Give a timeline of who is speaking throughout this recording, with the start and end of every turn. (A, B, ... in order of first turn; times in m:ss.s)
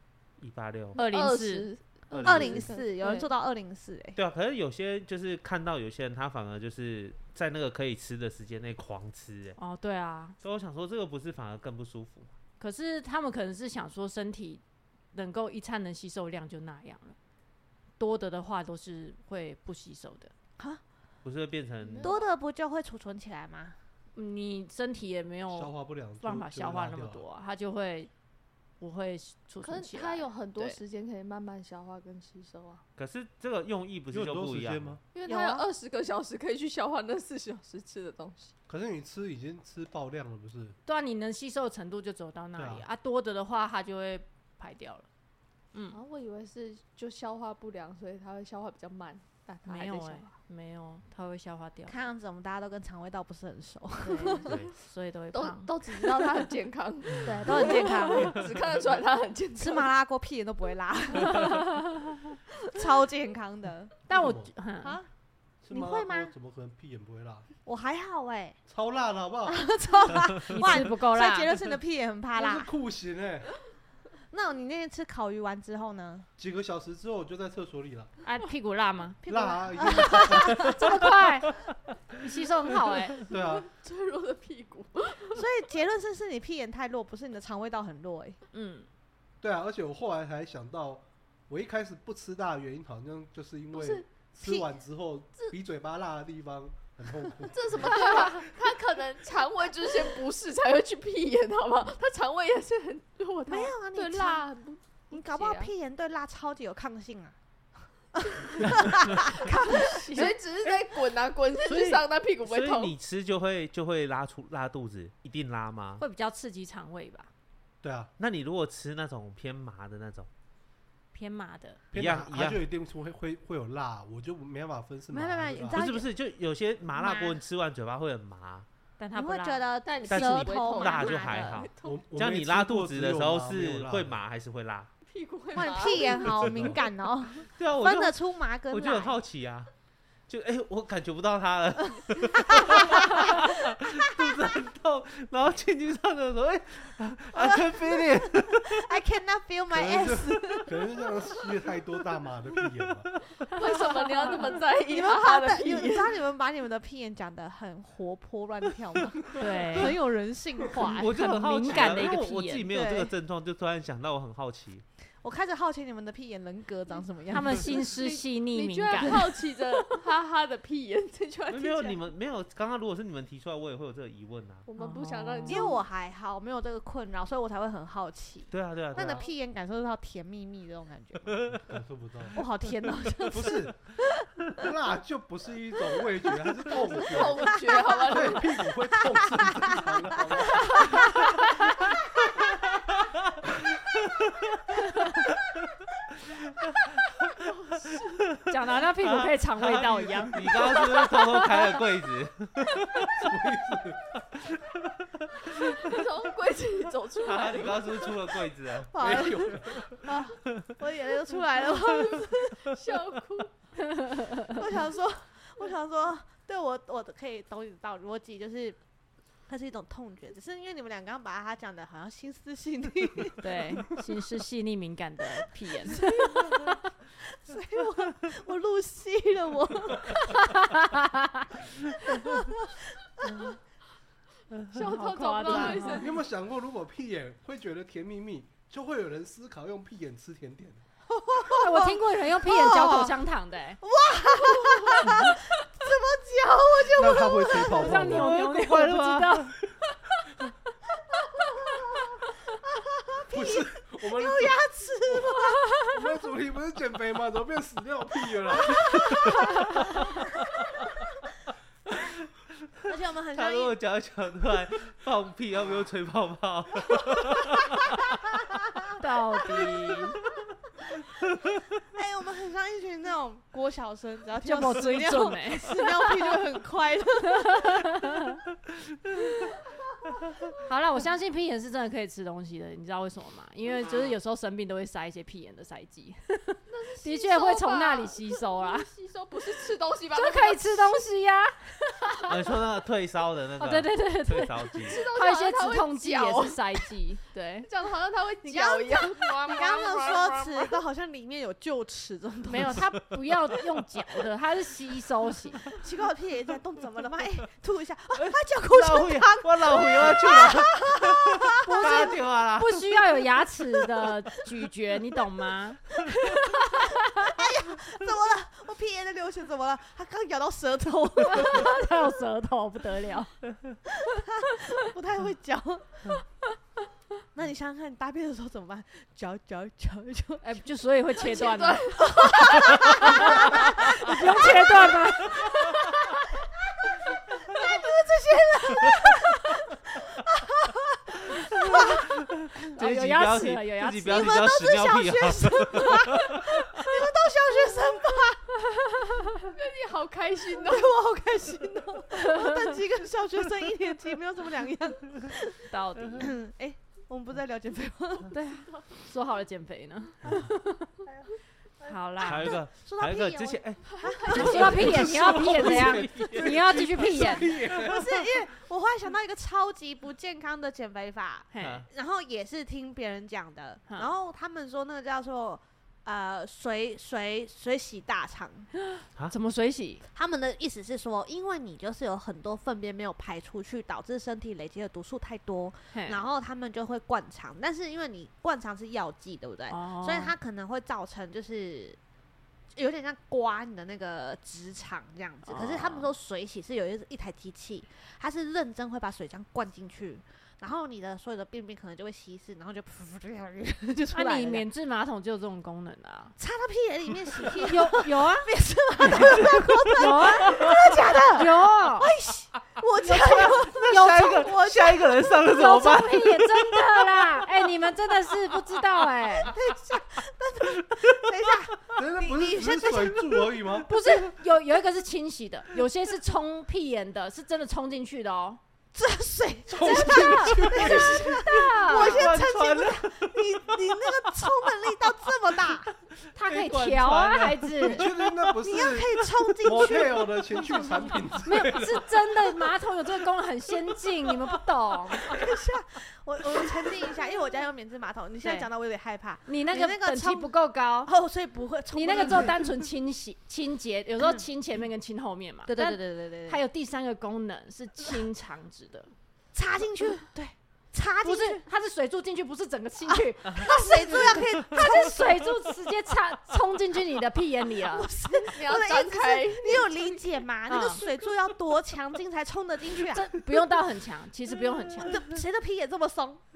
0:00.4-0:01.0 A
0:01.0-0:03.3 B
0:01.0-0:01.7 C
0:02.1-0:02.7 A
0:02.2-0:04.2 D
0:04.2-0:09.6 A
0:09.6-0:10.4 C
0:10.4-0:12.3 A
0:12.6-0:14.6 C
0:15.1-0:17.2 C
0:18.0-0:20.3 C
0:21.2-0:22.2 A
0:21.8-0:22.3 B
0:22.0-0:23.8 D
0:24.2-0:28.1 C
0:25.5-0:27.2 E
0:28.8-0:30.8 C
0:29.6-0:32.8 B
0:33.0-0:35.0 A
0:34.1-0:35.0 E
0:35.1-0:38.5 B
0:35.2-0:35.7 D
0:38.7-0:40.8 E
0:40.9-0:45.1 C
0:42.6-0:42.9 E
0:45.7-0:46.0 C
0:45.9-0:50.3 B
0:49.6-0:52.0 C
0:51.9-0:54.6 D
0:54.0-0:55.7 C
0:54.5-0:54.7 A
0:55.3-0:59.9 B
0:57.2-0:58.4 D
0:57.4-0:58.4 C
0:59.6-1:01.8 D
1:02.6-1:04.0 D
1:04.1-1:05.0 C
1:04.1-1:04.5 E
1:04.8-1:05.1 D
1:05.6-1:07.5 E
1:05.7-1:06.3 D
1:07.6-1:08.6 D
1:08.7-1:09.6 E
1:09.5-1:12.7 D
1:10.5-1:11.6 C
1:12.4-1:13.5 E
1:14.3-1:16.3 D
1:16.4-1:18.1 E
1:18.2-1:21.6 C
1:19.3-1:20.7 E
1:19.3-1:20.7 D
1:22.1-1:23.3 C
1:23.3-1:23.7 E
1:23.3-1:25.4 B
1:25.3-1:28.4 D
1:28.5-1:28.9 C
1:29.4-1:38.5 E
1:33.7-1:34.0 B
1:34.4-1:34.7 D
1:37.5-1:45.7 B
1:43.5-1:44.5 D
1:45.1-1:47.4 D
1:48.1-1:50.4 D
1:49.3-1:52.9 B
1:51.6-1:56.0 A
1:56.0-1:57.3 C
1:57.8-1:58.1 E
1:58.2-2:00.3 A
2:01.1-2:01.8 C
2:01.9-2:05.8 E
2:01.9-2:02.6 A
2:05.1-2:06.1 D
2:05.7-2:08.6 A
2:06.9-2:07.4 D
2:09.0-2:09.6 C
2:09.1-2:11.7 D
2:09.8-2:12.0 B
2:10.1-2:14.9 A
2:11.8-2:14.2 E
2:15.1-2:16.5 B
2:15.5-2:19.2 D
2:16.3-2:16.8 E
2:17.6-2:18.2 A
2:18.7-2:19.7 A
2:20.3-2:28.9 A
2:22.3-2:24.3 D
2:27.3-2:30.9 D
2:29.7-2:33.1 E
2:33.5-2:36.1 B
2:34.7-2:42.1 D
2:39.4-2:40.0 C
2:40.8-2:42.7 C
2:40.8-2:44.8 A
2:42.7-2:43.1 D
2:45.2-2:47.9 D
2:47.3-2:49.5 C
2:47.6-2:52.0 B
2:51.5-2:54.6 A
2:54.6-2:55.8 B
2:54.8-2:55.7 C
2:55.5-3:01.3 D
2:58.5-2:59.3 A
3:01.3-3:01.6 A
3:01.6-3:02.4 E
3:02.4-3:03.7 D
3:03.3-3:03.8 E
3:04.6-3:11.1 E
3:06.8-3:08.7 B
3:07.7-3:08.2 D
3:09.0-3:09.8 D
3:10.6-3:11.2 D
3:13.8-3:14.6 A
3:17.4-3:18.3 B
3:18.5-3:21.6 C
3:19.0-3:23.3 A
3:23.1-3:24.1 E
3:24.8-3:26.0 A
3:25.7-3:28.1 B
3:27.2-3:28.9 A
3:28.9-3:32.7 D
3:29.0-3:30.0 E
3:31.6-3:33.6 B
3:34.0-3:34.5 C
3:34.5-3:38.8 D
3:39.5-3:43.9 D
3:43.4-3:46.6 C
3:45.8-3:50.7 D
3:50.5-3:51.5 C
3:51.6-3:53.6 D
3:54.6-3:56.2 B
3:54.8-3:56.1 C
3:55.5-4:00.8 E
4:01.1-4:03.2 D
4:01.5-4:03.8 C
4:03.8-4:07.9 D
4:06.9-4:08.4 E
4:07.6-4:09.6 C
4:08.0-4:09.6 A
4:12.6-4:15.6 D
4:13.3-4:19.3 E
4:18.6-4:19.4 D
4:22.9-4:23.8 D
4:23.4-4:28.5 A
4:29.0-4:30.2 C
4:31.9-4:38.0 D
4:34.4-4:36.3 C
4:37.4-4:38.4 C
4:40.6-4:48.9 C
4:46.7-4:51.0 B
4:50.1-4:52.3 C
4:52.3-4:55.0 A
4:53.6-4:57.7 C
4:54.9-4:56.9 B
4:57.6-5:00.8 B
4:58.4-5:02.9 D
5:02.5-5:05.7 C
5:05.8-5:12.1 D
5:08.2-5:13.0 A
5:11.6-5:17.3 C
5:16.1-5:21.9 D
5:21.3-5:23.3 C
5:23.9-5:26.2 D
5:27.3-5:30.6 D
5:30.4-5:31.9 C
5:31.1-5:33.1 B
5:32.0-5:35.9 D
5:32.7-5:35.8 C
5:36.6-5:42.1 D
5:41.4-5:46.6 A
5:42.7-5:44.3 C
5:44.0-5:48.5 D
5:49.5-5:50.9 B
5:50.5-5:58.4 D
5:55.7-5:56.3 C
5:58.3-6:01.0 C
6:01.8-6:02.6 C
6:02.2-6:06.5 A
6:02.2-6:05.8 D
6:03.9-6:04.9 B
6:04.3-6:07.6 C
6:04.8-6:08.1 E
6:07.5-6:18.7 D
6:11.5-6:11.8 C
6:11.6-6:11.9 A
6:18.9-6:20.0 C
6:20.1-6:32.0 D
6:25.9-6:26.2 C
6:29.7-6:30.4 C
6:32.7-6:44.6 D
6:35.4-6:36.1 C
6:44.1-6:46.4 C
6:46.4-6:55.4 D
6:47.6-6:50.8 C
6:50.5-6:50.8 A
6:51.3-6:52.1 C
6:53.1-6:54.4 C
6:53.2-6:57.2 A
6:55.5-6:59.5 C
6:59.5-7:03.6 D
7:02.0-7:04.0 E
7:03.8-7:08.6 C
7:08.9-7:15.9 D
7:09.7-7:11.4 E
7:09.9-7:12.3 C
7:11.9-7:14.7 A
7:16.3-7:18.5 A
7:16.4-7:18.1 C
7:17.8-7:22.7 E
7:18.6-7:21.4 D
7:21.4-7:25.3 C
7:25.3-7:32.7 D
7:28.4-7:28.7 C
7:29.5-7:31.1 C
7:31.9-7:39.1 C
7:35.6-7:36.6 D
7:39.5-7:41.6 D
7:41.2-7:48.1 C
7:43.1-7:45.5 D
7:47.8-7:53.4 D
7:48.5-7:49.9 B
7:50.7-7:51.0 C
7:53.1-7:55.2 C
7:55.0-7:56.5 D